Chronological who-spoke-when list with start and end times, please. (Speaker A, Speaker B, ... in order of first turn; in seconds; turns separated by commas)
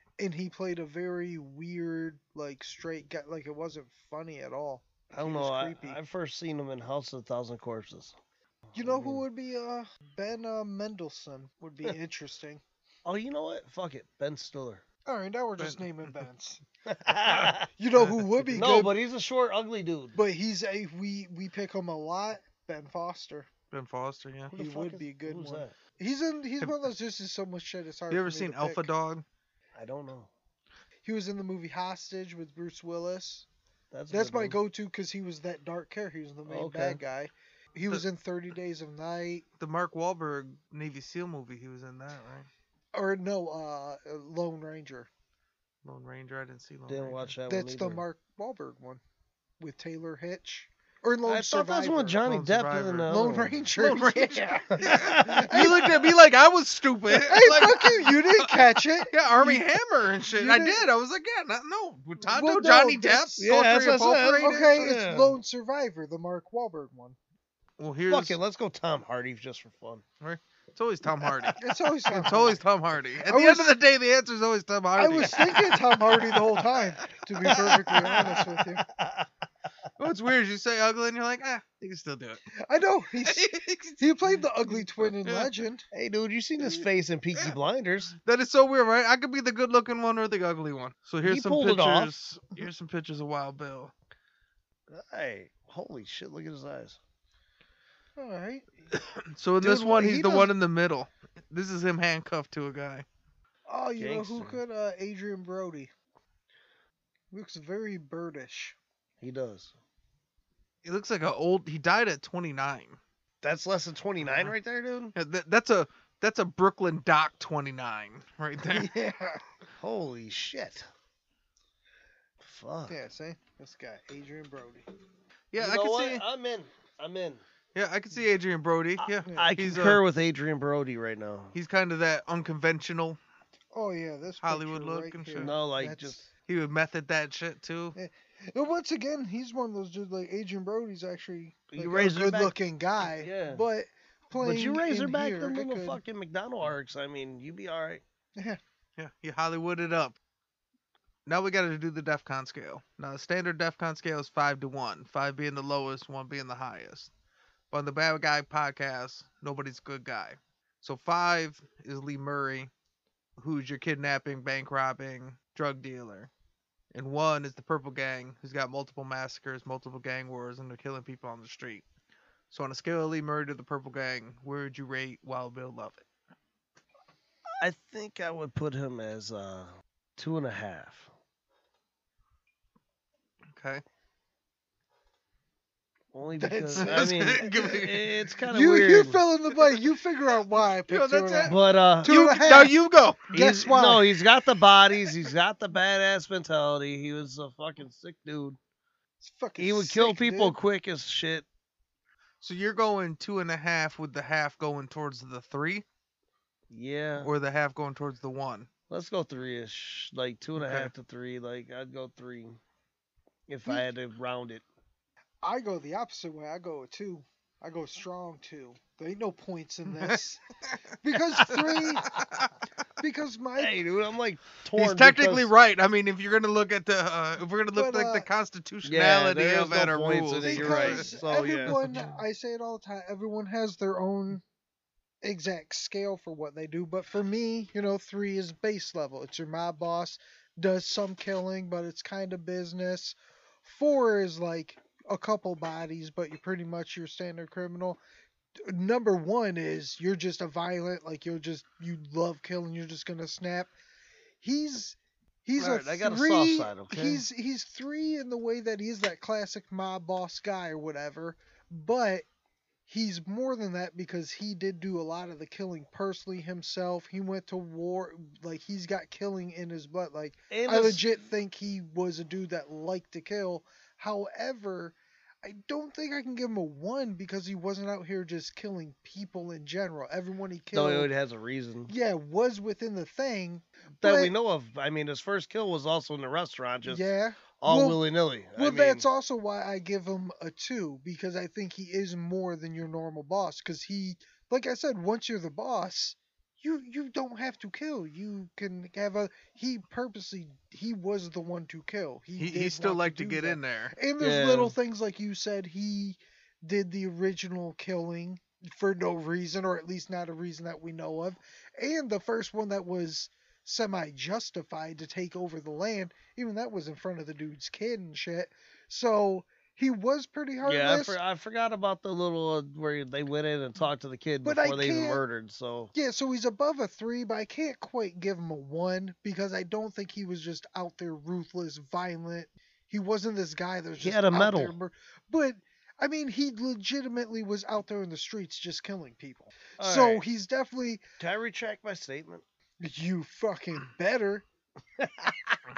Speaker A: 0.2-6.0, Speaker B: 5.1-8.2, Speaker B: 8.7-9.2, Speaker A: 8.8-12.6, Speaker B: 13.1-14.8, Speaker A: 15.1-16.6, Speaker C: 15.6-16.2, Speaker B: 16.9-17.7, Speaker A: 17.8-19.0, Speaker C: 18.0-18.2, Speaker B: 18.5-20.2, Speaker A: 20.1-23.5, Speaker C: 23.7-24.5, Speaker B: 24.5-25.8, Speaker A: 24.5-28.9, Speaker C: 28.1-29.2, Speaker B: 29.8-30.3, Speaker A: 31.0-33.5, Speaker B: 33.9-34.6, Speaker A: 34.1-39.4, Speaker B: 36.5-37.0, Speaker C: 39.6-42.5, Speaker A: 42.9-45.1, Speaker C: 45.8-47.3, Speaker B: 46.9-48.0, Speaker A: 47.5-49.0, Speaker A: 49.6-52.2, Speaker B: 51.2-53.6, Speaker C: 52.2-53.1, Speaker A: 53.1-55.9, Speaker C: 53.8-64.8, Speaker B: 54.8-55.9, Speaker A: 57.1-59.6, Speaker A: 60.2-60.8, Speaker A: 62.2-63.5, Speaker B: 63.4-65.4, Speaker A: 64.4-67.2, Speaker C: 67.8-68.4, Speaker B: 68.1-70.0, Speaker C: 70.2-71.6, Speaker B: 71.1-71.5, Speaker A: 71.6-72.6, Speaker C: 72.1-75.8, Speaker A: 73.2-73.7, Speaker A: 75.0-78.9, Speaker B: 75.1-75.6, Speaker B: 77.5-79.3, Speaker C: 80.0-82.4, Speaker A: 82.6-85.9, Speaker C: 83.2-85.5, Speaker B: 85.9-88.2, Speaker C: 88.2-93.9, Speaker B: 91.2-92.1, Speaker B: 94.9-97.0, Speaker A: 98.2-98.9, Speaker C: 99.3-103.0, Speaker A: 99.6-100.5, Speaker A: 103.7-105.9, Speaker B: 104.0-104.6, Speaker A: 107.3-108.8, Speaker B: 109.2-109.7, Speaker C: 110.8-113.0, Speaker B: 113.4-115.2, Speaker C: 115.2-118.9, Speaker A: 118.7-119.4, Speaker B: 119.8-120.9, Speaker B: 122.4-123.0, Speaker A: 122.9-124.8, Speaker C: 125.5-126.2, Speaker B: 125.6-127.4, Speaker C: 127.8-130.0, Speaker B: 129.0-131.6, Speaker A: 129.3-129.5, Speaker C: 131.6-133.2, Speaker A: 133.7-136.2, Speaker C: 134.4-135.6, Speaker B: 135.4-136.3, Speaker C: 136.5-138.0, Speaker A: 138.0-146.0, Speaker B: 141.7-143.6, Speaker B: 144.3-148.0, Speaker C: 149.0-150.2, Speaker C: 151.3-157.1, Speaker C: 157.7-162.7, Speaker C: 163.4-166.3, Speaker C: 166.9-171.9, Speaker C: 172.5-176.1, Speaker B: 177.6-181.1, Speaker C: 183.6-183.8, Speaker B: 186.1-189.2, Speaker A: 186.4-187.5, Speaker C: 186.8-188.1, Speaker A: 188.5-192.8, Speaker C: 190.9-193.2, Speaker B: 191.4-192.2, Speaker A: 193.3-194.2, Speaker B: 193.3-198.6, Speaker A: 199.2-200.6, Speaker B: 199.6-201.5, Speaker C: 202.4-205.8, Speaker B: 206.7-207.3, Speaker C: 207.2-208.7, Speaker B: 208.9-212.6, Speaker C: 210.6-210.9, Speaker B: 213.5-214.6, Speaker A: 215.4-220.4, Speaker A: 221.0-222.1, Speaker C: 221.5-222.5, Speaker A: 223.0-223.8, Speaker B: 223.6-225.5, Speaker C: 224.7-231.1, Speaker A: 227.7-228.3, Speaker B: 228.8-231.8, Speaker A: 230.4-234.4, Speaker C: 231.7-232.1, Speaker A: 235.2-248.0, Speaker A: 248.6-253.7, Speaker A: 254.4-262.3, Speaker B: 255.6-257.2, Speaker A: 262.9-281.1, Speaker B: 270.5-271.0, Speaker B: 280.7-281.9, Speaker A: 281.9-284.4, Speaker B: 284.0-287.1, Speaker A: 286.8-288.0, Speaker B: 287.6-289.1, Speaker A: 288.5-321.2, Speaker C: 302.4-303.9, Speaker B: 304.2-304.8, Speaker B: 320.6-325.9, Speaker A: 324.4-325.2, Speaker A: 325.9-341.0, Speaker B: 334.0-334.8, Speaker B: 339.8-340.2, Speaker B: 341.2-342.4, Speaker A: 342.8-344.4, Speaker B: 345.0-345.6